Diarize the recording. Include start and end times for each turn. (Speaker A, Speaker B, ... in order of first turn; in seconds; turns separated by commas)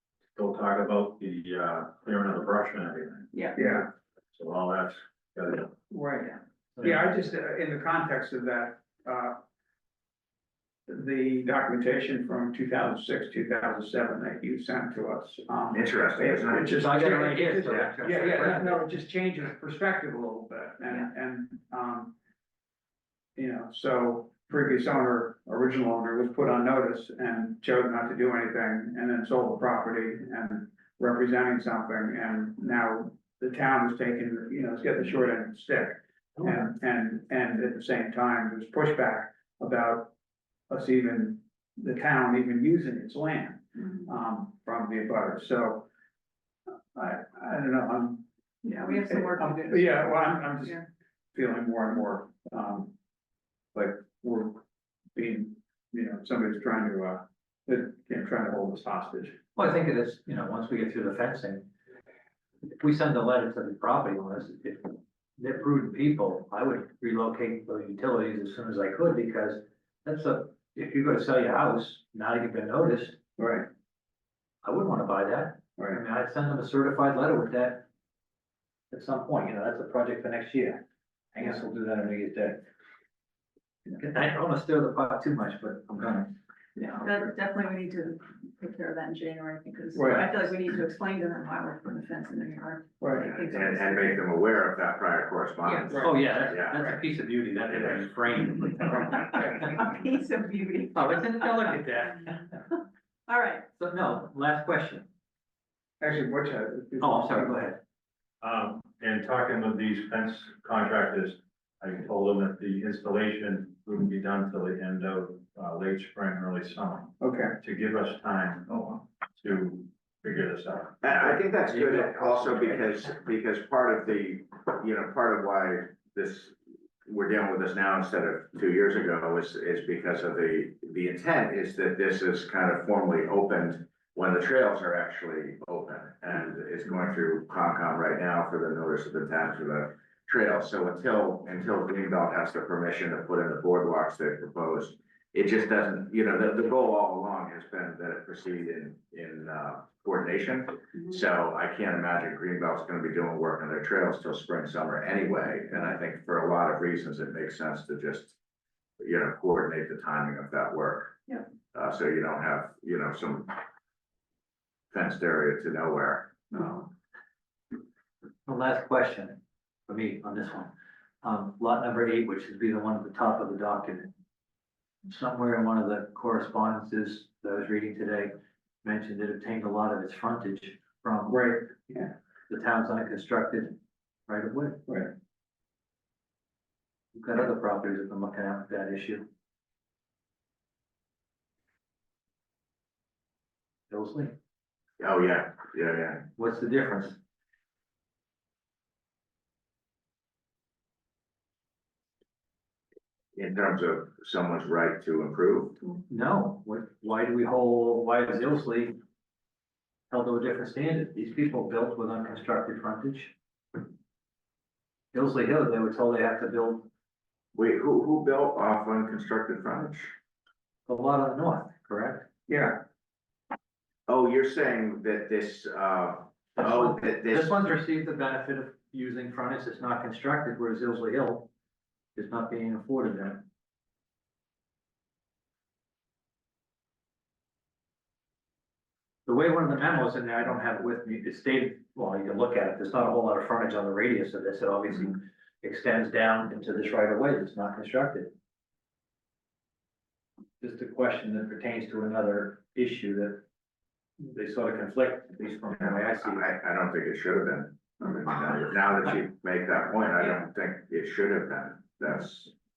Speaker A: 0.3-3.3, Speaker B: 3.3-3.6, Speaker C: 3.5-3.9, Speaker A: 4.3-5.7, Speaker C: 5.9-9.4, Speaker C: 10.9-22.1, Speaker D: 15.7-16.8, Speaker E: 16.7-18.8, Speaker C: 23.4-40.1, Speaker C: 40.7-45.9, Speaker C: 46.9-48.2, Speaker B: 48.6-50.8, Speaker C: 48.8-50.8, Speaker C: 51.3-52.9, Speaker C: 53.7-54.6, Speaker C: 55.1-59.4, Speaker E: 59.5-61.7, Speaker E: 62.7-73.2, Speaker C: 73.4-73.7, Speaker E: 74.6-77.9, Speaker E: 78.9-82.7, Speaker E: 84.0-86.3, Speaker B: 86.8-94.2, Speaker C: 90.0-90.3, Speaker C: 93.0-93.3, Speaker D: 93.2-96.8, Speaker C: 95.9-96.2, Speaker E: 96.0-99.7, Speaker B: 99.3-101.9, Speaker E: 100.9-102.5, Speaker B: 103.3-103.7, Speaker E: 103.8-105.1, Speaker C: 106.0-107.5, Speaker E: 107.0-107.8, Speaker A: 108.4-121.0, Speaker C: 117.2-117.6, Speaker D: 121.0-126.5, Speaker E: 121.7-123.1, Speaker D: 127.1-158.4, Speaker D: 159.0-161.2, Speaker D: 161.7-163.6, Speaker D: 164.9-166.4, Speaker E: 168.5-170.7, Speaker E: 171.2-174.1, Speaker E: 175.1-181.4, Speaker C: 181.3-182.1, Speaker E: 182.5-183.8, Speaker E: 184.3-184.9, Speaker C: 184.9-185.1, Speaker E: 187.1-189.3, Speaker E: 193.9-194.3, Speaker D: 195.0-196.3, Speaker E: 196.4-197.2, Speaker D: 203.3-205.8, Speaker E: 206.1-209.0, Speaker E: 210.1-213.3, Speaker E: 215.1-216.9, Speaker D: 217.6-220.1, Speaker E: 220.9-222.3, Speaker C: 222.5-222.8, Speaker D: 224.1-227.6, Speaker E: 226.6-231.5, Speaker E: 232.2-233.4, Speaker E: 239.3-248.3, Speaker E: 250.6-253.4, Speaker E: 254.2-256.4, Speaker D: 256.2-262.5